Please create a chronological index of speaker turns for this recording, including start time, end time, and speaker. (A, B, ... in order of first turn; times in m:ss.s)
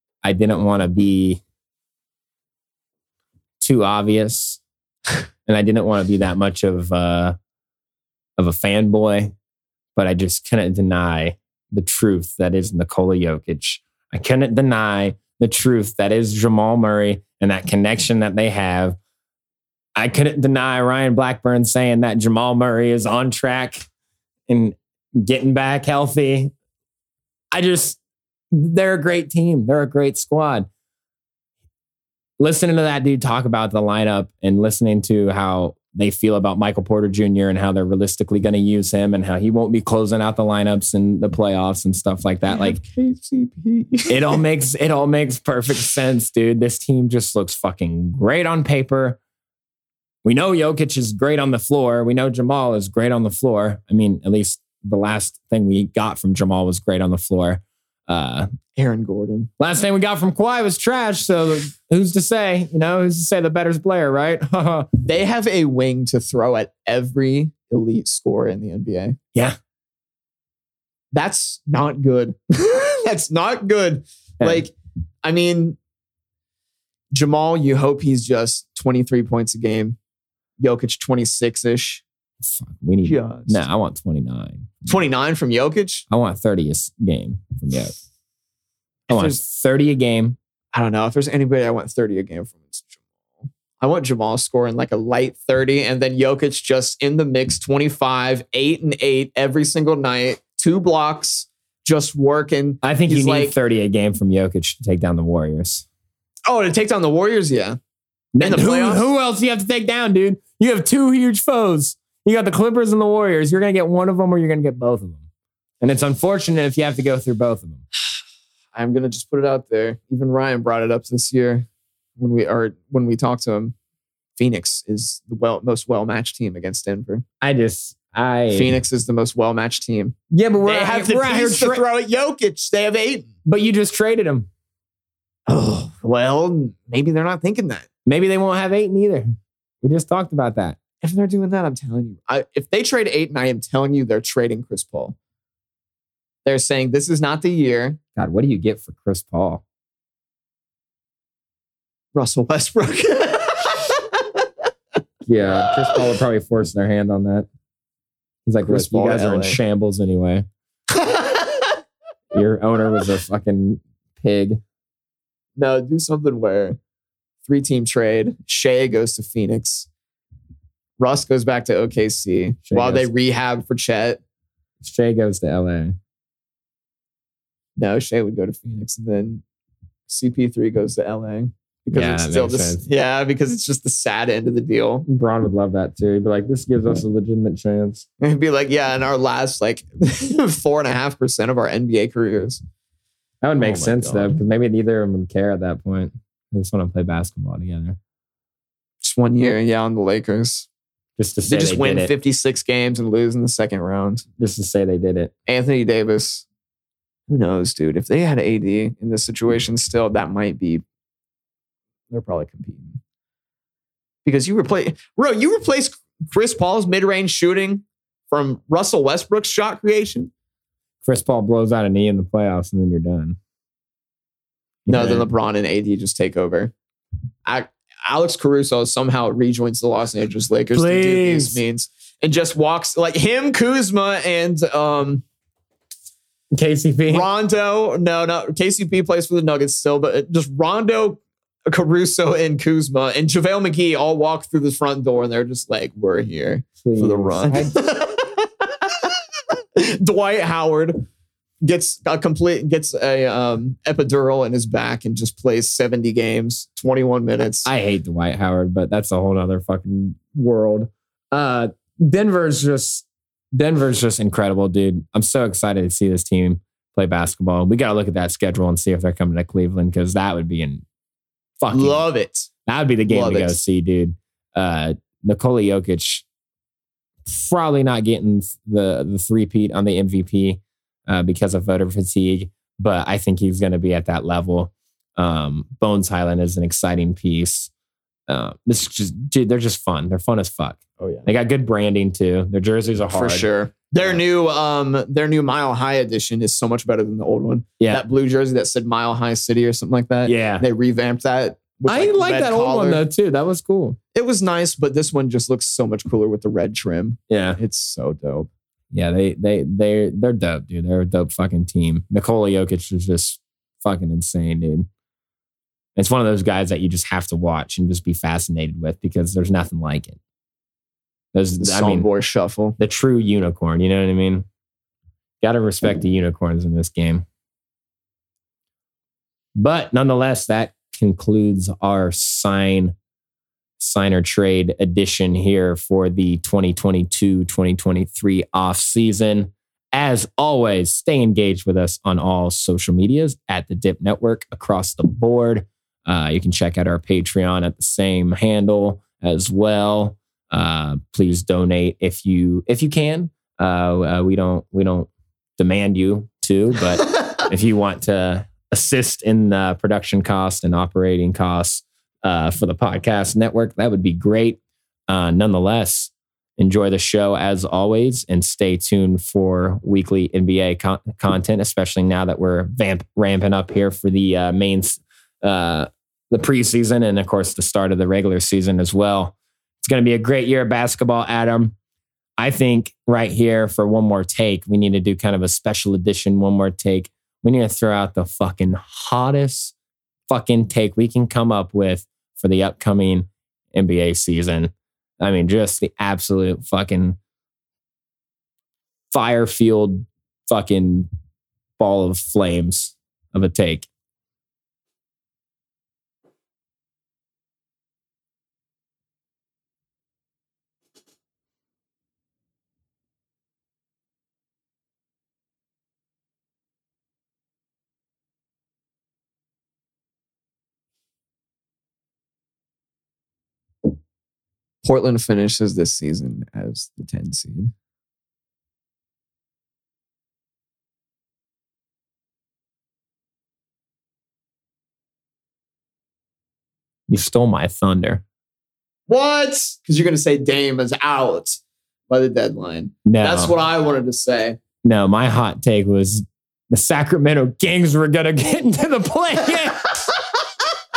0:00.2-0:01.4 A
0:03.6-0:04.6 A
0:05.4-0:07.4 A
0:08.4-0:09.3 A
0:10.0-0:19.0 A
0:20.0-0:23.9 A
0:24.5-0:26.5 A
0:27.5-0:28.0 A
0:28.5-0:30.7 A
0:32.4-0:42.8 A
0:42.5-0:44.4 B
0:44.1-0:49.2 A
0:50.2-0:58.5 A
0:58.8-0:59.5 B
0:59.6-1:04.9 A
1:05.0-1:09.2 B
1:11.1-1:15.8 B
1:14.4-1:14.7 A
1:17.1-1:20.0 B
1:20.6-1:22.0 B
1:22.4-1:25.0 A
1:23.0-1:23.6 B
1:24.9-1:26.1 B
1:26.1-1:27.9 A
1:29.1-1:29.4 B
1:29.1-1:30.4 A
1:30.7-1:43.5 B
1:42.8-1:45.8 A
1:46.5-1:47.8 B
1:48.3-1:55.2 A
1:48.4-1:49.1 B
1:55.8-1:57.8 A
1:58.7-2:01.6 B
2:02.2-2:03.7 B
2:04.4-2:07.2 B
2:07.4-2:08.7 A
2:08.5-2:13.3 B
2:10.3-2:11.8 A
2:13.4-2:14.5 A
2:15.5-2:17.9 B
2:18.1-2:19.3 A
2:19.8-2:20.8 A
2:21.0-2:25.2 B
2:26.4-2:28.0 B
2:28.2-2:29.6 A
2:32.1-2:34.5 B
2:35.3-2:37.4 A
2:38.4-2:40.4 A
2:38.6-2:39.6 B
2:40.9-2:41.8 B
2:42.3-2:44.6 A
2:45.6-2:46.8 B
2:47.4-2:49.9 B
2:51.0-2:54.2 B
2:52.7-2:53.1 A
2:54.8-2:55.9 A
2:57.8-2:59.4 B
3:00.1-3:05.0 B
3:01.9-3:02.8 A
3:05.1-3:08.0 A
3:08.2-3:12.6 B
3:13.4-3:18.0 A
3:13.6-3:14.4 B
3:19.0-3:20.7 B
3:21.2-3:22.1 A
3:21.5-3:24.2 B
3:24.4-3:25.3 A
3:25.5-3:26.4 B
3:27.3-3:30.8 B
3:32.1-3:33.0 B
3:34.2-3:40.3 B
3:41.0-3:43.4 A
3:44.9-3:45.3 A
3:44.9-3:46.7 B
3:47.4-3:55.2 B
3:50.7-3:51.6 A
3:56.5-3:57.3 A
3:57.1-4:11.0 B
4:06.8-4:07.8 A
4:11.6-4:17.7 B
4:17.6-4:30.8 A
4:31.6-4:32.0 A
4:31.7-4:32.5 B
4:32.6-4:36.2 A
4:33.1-4:33.6 B
4:37.3-4:47.7 A
4:48.3-4:53.5 A
4:51.0-4:51.3 B
4:53.1-5:03.0 B
5:00.2-5:00.6 A
5:01.9-5:04.0 A
5:04.1-5:08.5 B
5:07.3-5:07.6 A
5:08.9-5:14.9 A
5:16.0-5:20.2 A
5:21.3-5:22.1 A
5:21.6-5:22.8 B
5:22.8-5:24.4 A
5:25.4-5:27.2 A
5:29.6-5:32.9 A
5:33.8-6:21.7 A
6:22.4-6:29.7 A
6:30.3-6:37.2 A
6:39.1-6:41.1 A
6:41.8-6:43.9 A
7:04.8-7:07.7 B
7:17.1-7:18.2 A
7:19.1-7:21.6 B
7:22.1-7:24.6 B
7:23.1-7:23.5 A
7:24.8-7:30.0 A